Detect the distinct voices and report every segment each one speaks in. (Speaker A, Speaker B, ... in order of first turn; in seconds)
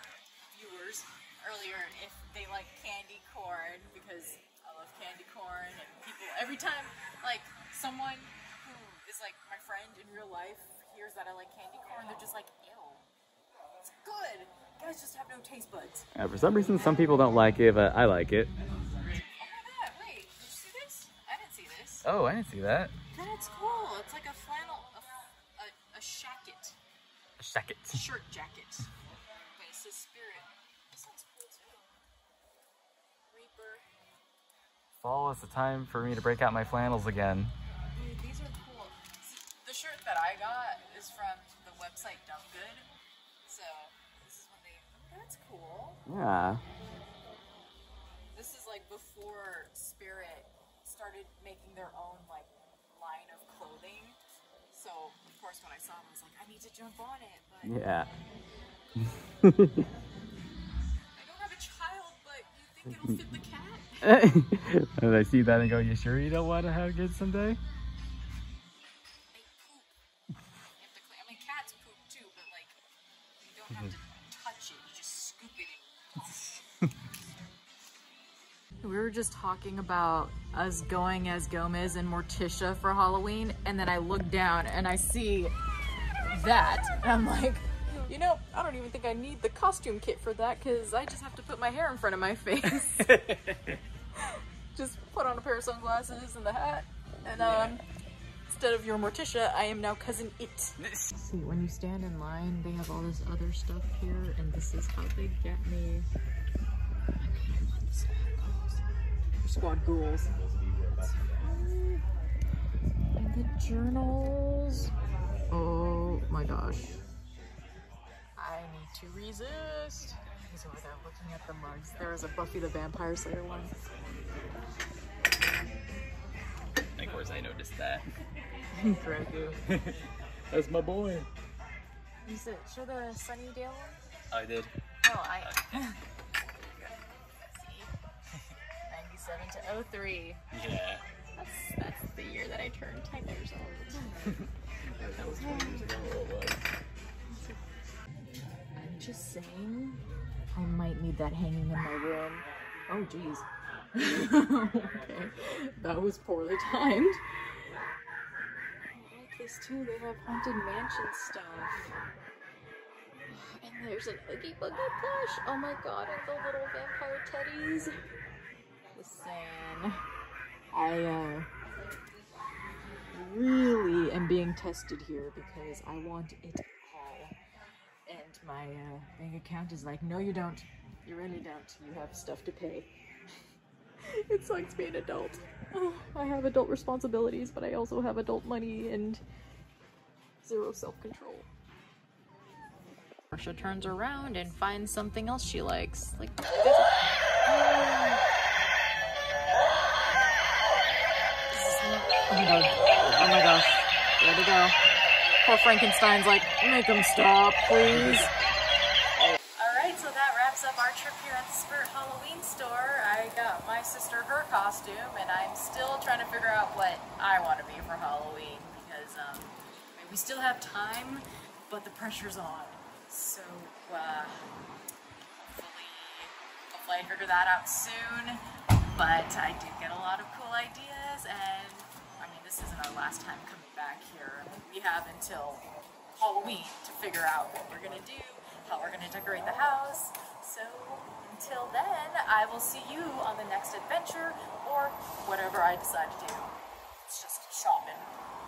Speaker A: 0.5-13.0, 13.8-16.1, 16.7-17.3, 19.0-22.0, 23.1-26.8, 27.9-28.9, 29.6-31.9, 33.3-33.9, 37.9-42.9, 43.5-46.0, 48.3-54.2, 54.7-57.8, 61.1-64.1, 69.3-70.0, 70.8-72.8, 73.4-76.6, 78.8-85.5, 86.3-93.2, 94.2-97.8, 98.5-106.1, 107.2-108.8, 109.4-110.3, 111.0-112.0, 113.2-114.9, 115.5-117.0, 118.4-123.7, 128.7-129.6, 132.2-134.0, 135.0-136.0, 136.6-137.9, 138.9-140.4, 141.3-144.4, 148.8-150.0, 150.5-157.2, 158.9-161.9, 163.3-167.9, 168.9-170.0, 170.7-171.5, 173.1-177.3, 178.1-182.9, 184.0-189.2, 190.4-191.5, 193.3-198.2, 201.5-204.7, 205.4-208.3, 209.6-224.4, 225.4-228.4, 228.9-246.5, 247.1-248.1
Speaker B: 16.1-18.5, 22.0-22.9, 27.4-28.0, 35.0-37.5, 46.1-46.6, 57.6-58.1, 59.0-59.9, 64.0-67.6, 92.8-93.8, 97.4-97.8, 100.8-101.1, 110.3-111.6, 127.0-128.1, 129.6-130.0, 130.5-131.3, 134.3-134.7, 135.4-135.8, 140.5-141.0, 144.2-146.7